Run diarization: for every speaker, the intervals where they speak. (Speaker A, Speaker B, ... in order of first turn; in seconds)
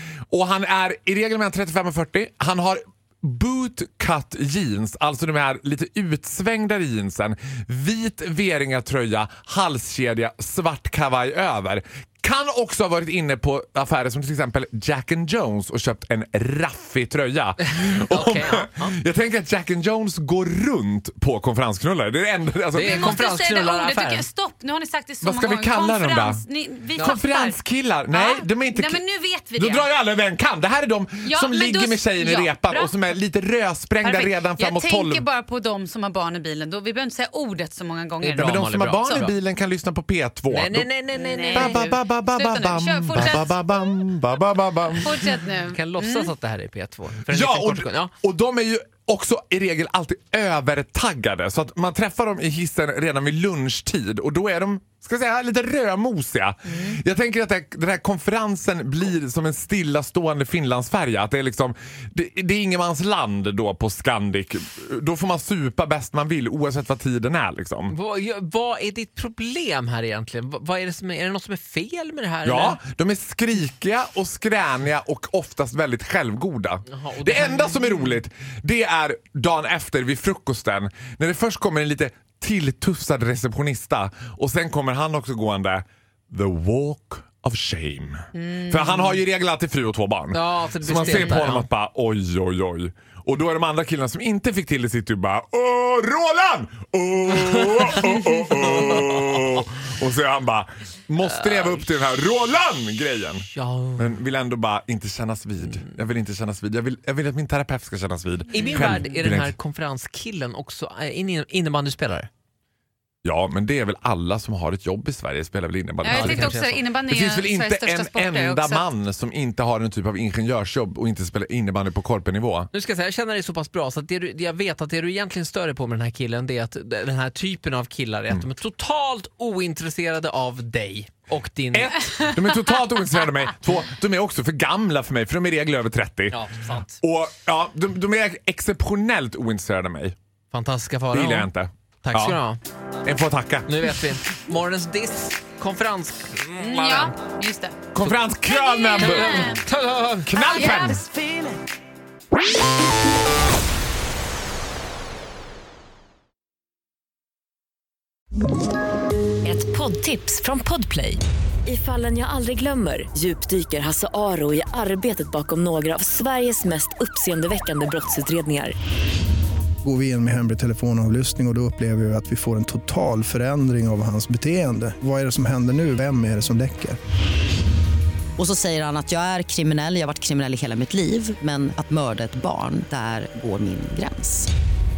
Speaker A: 0.3-23.2, 25.2-26.4, 26.9-29.0, 29.5-35.2, 38.2-40.9, 41.5-45.4, 47.3-67.9, 72.4-109.5, 113.2-122.7, 131.7-136.4, 137.0-140.1, 141.1-142.4, 143.0-143.7, 147.9-149.6, 150.2-151.1
Speaker B: 17.8-18.9, 22.7-24.2, 38.3-39.3, 40.5-41.9, 45.6-48.1, 67.9-72.8, 76.9-78.1, 90.3-91.7, 98.8-99.2, 101.2-101.9, 103.5-104.1, 108.5-112.3, 116.0-116.8, 122.7-132.1, 136.3-137.0, 140.5-141.5, 142.0-142.6, 143.7-147.1, 149.0-150.3
Speaker C: 22.7-29.9, 31.2-33.0, 34.0-39.3, 41.1-43.6, 45.0-46.3, 88.3-89.2, 91.0-91.3, 116.0-118.9, 146.6-147.8, 148.4-149.6, 150.5-151.1
Speaker D: 159.4-168.7
Speaker E: 169.8-177.0
Speaker F: 178.4-184.5